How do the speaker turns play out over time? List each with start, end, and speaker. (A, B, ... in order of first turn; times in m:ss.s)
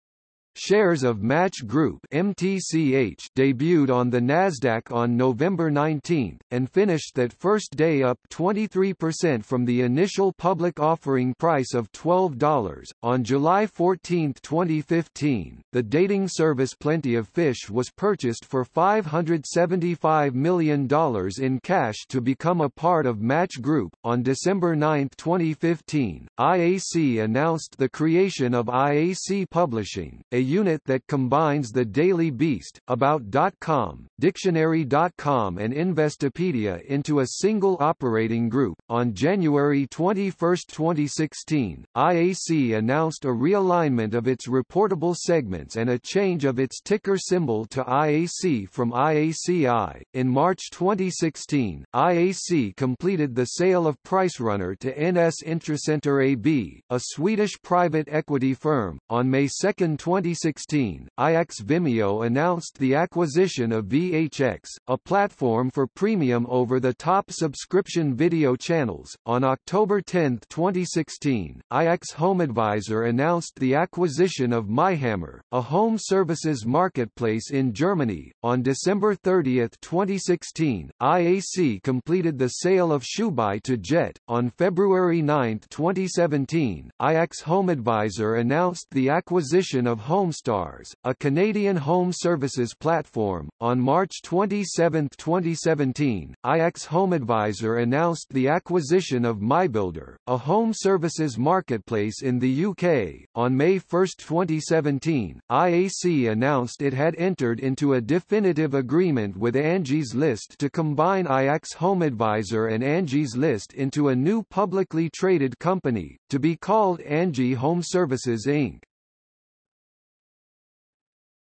0:00.5-1:58.8 A